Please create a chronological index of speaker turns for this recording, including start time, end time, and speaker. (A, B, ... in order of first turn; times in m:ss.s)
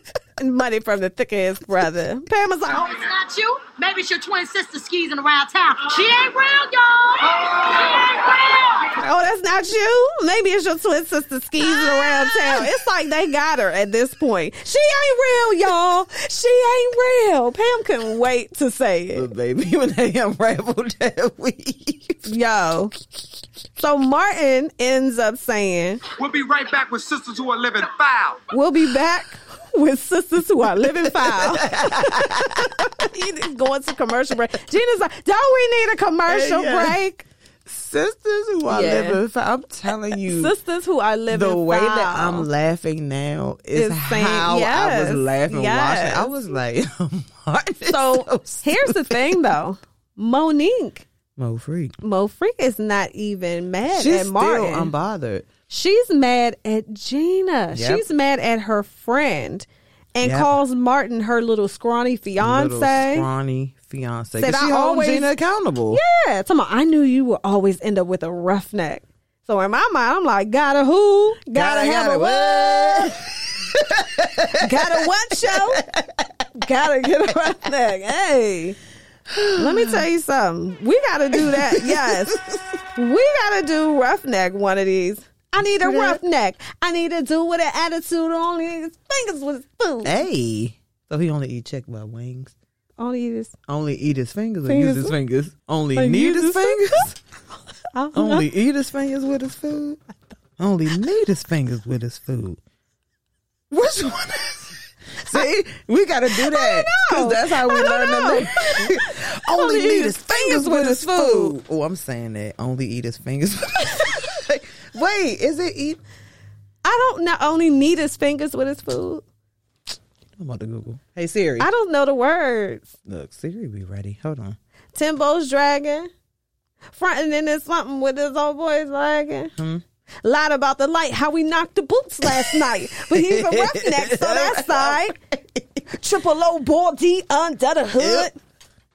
0:00.4-0:02.9 A
0:02.8-0:08.6 B
0:08.9-0:19.3 A
0:11.8-0:12.7 C
0:19.1-0:22.3 C
0:22.2-0:22.9 A
0:23.8-0:26.0 A
0:26.1-0:28.5 D
0:28.5-0:37.3 A
0:30.8-0:32.9 C
0:36.3-0:37.0 C
0:37.7-0:40.5 C
0:38.7-0:39.2 A
0:40.2-0:42.5 A
0:41.3-0:49.3 C
0:43.8-0:46.3 A
0:47.9-0:51.0 A
0:51.4-0:52.0 C
0:52.0-0:54.9 A
0:53.9-0:55.5 C
0:55.7-1:03.3 A
0:57.7-0:58.0 C
1:00.2-1:00.5 C
1:02.4-1:06.0 C
1:04.4-1:05.3 A
1:05.9-1:13.2 A
1:11.5-1:16.4 C
1:14.6-1:15.8 A
1:16.6-1:18.8 A
1:19.3-1:20.0 C
1:19.6-1:22.4 A
1:21.3-1:22.6 C
1:23.0-1:30.2 A
1:25.6-1:26.2 C
1:30.0-1:32.5 C
1:33.0-1:33.5 A
1:33.7-1:37.2 C
1:34.7-1:35.2 A
1:36.0-1:37.0 A
1:37.9-1:38.4 A
1:38.1-1:40.0 C
1:40.6-1:42.6 C
1:43.7-1:56.0 C
1:46.3-1:51.6 A
1:56.8-1:59.2 A
2:00.4-2:01.7 C
2:01.6-2:02.9 A
2:03.1-2:04.6 C
2:04.9-2:06.1 A
2:06.9-2:09.5 A
2:09.6-2:09.8 C
2:10.2-2:15.2 A
2:12.2-2:15.6 C
2:15.9-2:18.4 A
2:18.0-2:18.3 C